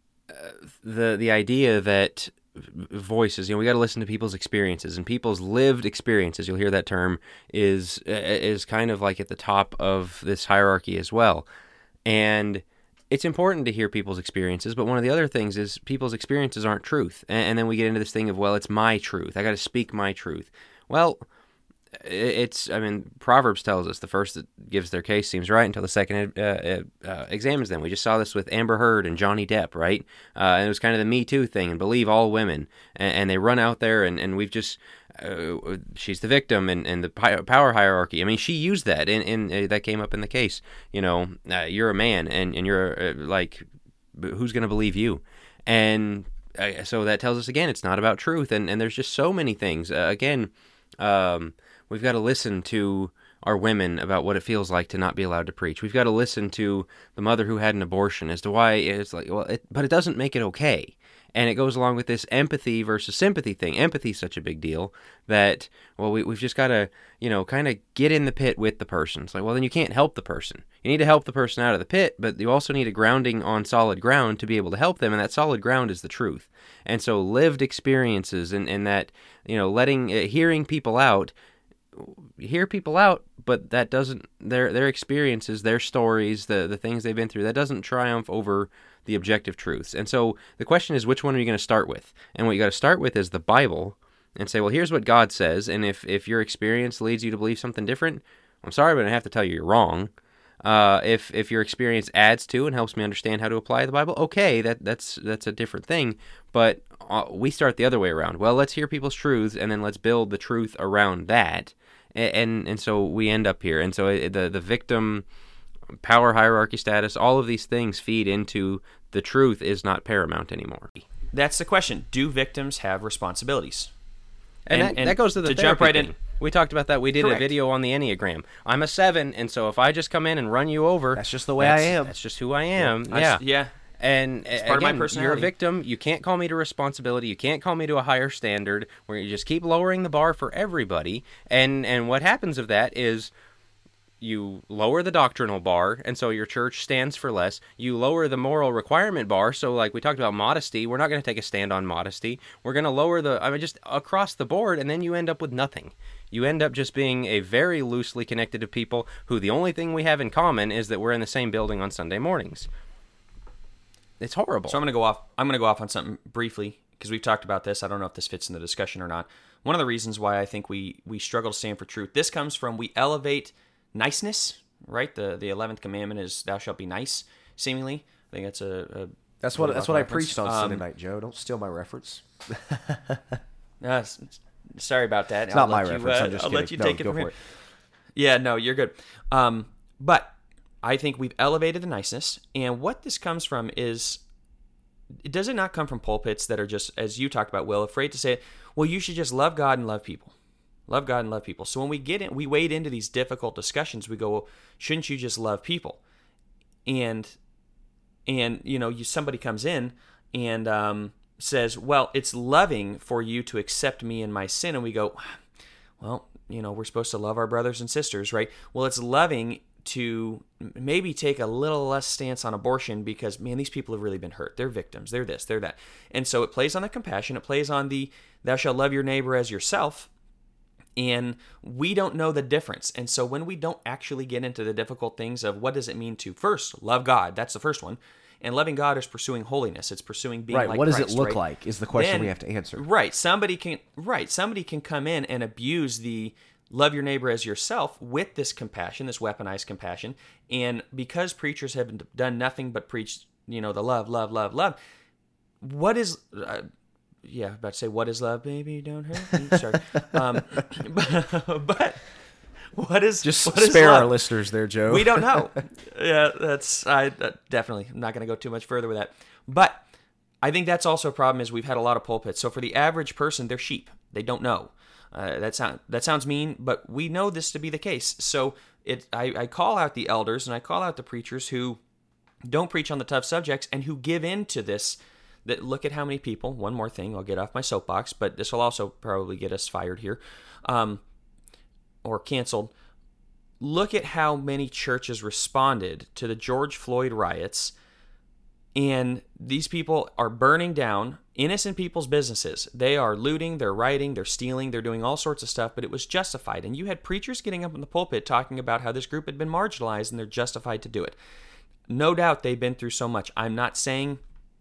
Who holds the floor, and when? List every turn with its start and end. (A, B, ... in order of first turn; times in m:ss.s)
0:00.3-0:11.5 A
0:12.1-0:21.3 A
0:22.0-1:21.3 A
1:22.0-1:40.1 A
1:40.6-1:55.2 A
1:56.0-2:01.0 A
2:01.3-2:03.9 B
2:04.7-2:13.4 A
2:04.7-2:06.2 B
2:11.2-2:12.2 C
2:12.8-2:13.7 B
2:14.0-2:23.3 A
2:14.6-2:15.5 B
2:24.2-2:42.7 A
2:44.2-2:44.8 A
2:44.7-3:00.8 B
2:59.4-3:03.4 C
3:03.8-3:07.3 B
3:05.5-3:07.3 C
3:08.2-3:14.2 B
3:15.2-3:20.4 B
3:20.9-3:26.0 B
3:26.9-3:27.4 B
3:28.3-3:35.4 B
3:36.0-3:50.1 B
3:51.0-4:01.4 B
4:00.5-4:02.8 C
4:02.0-4:14.8 B
4:15.6-4:16.7 B
4:17.2-4:22.0 B
4:22.8-4:24.1 B
4:23.2-4:25.4 C
4:24.9-4:29.8 B
4:30.4-4:41.8 B
4:42.5-4:51.0 B
4:52.0-4:52.7 B
4:53.6-4:57.7 B
4:58.8-5:11.2 B
5:11.9-5:14.2 B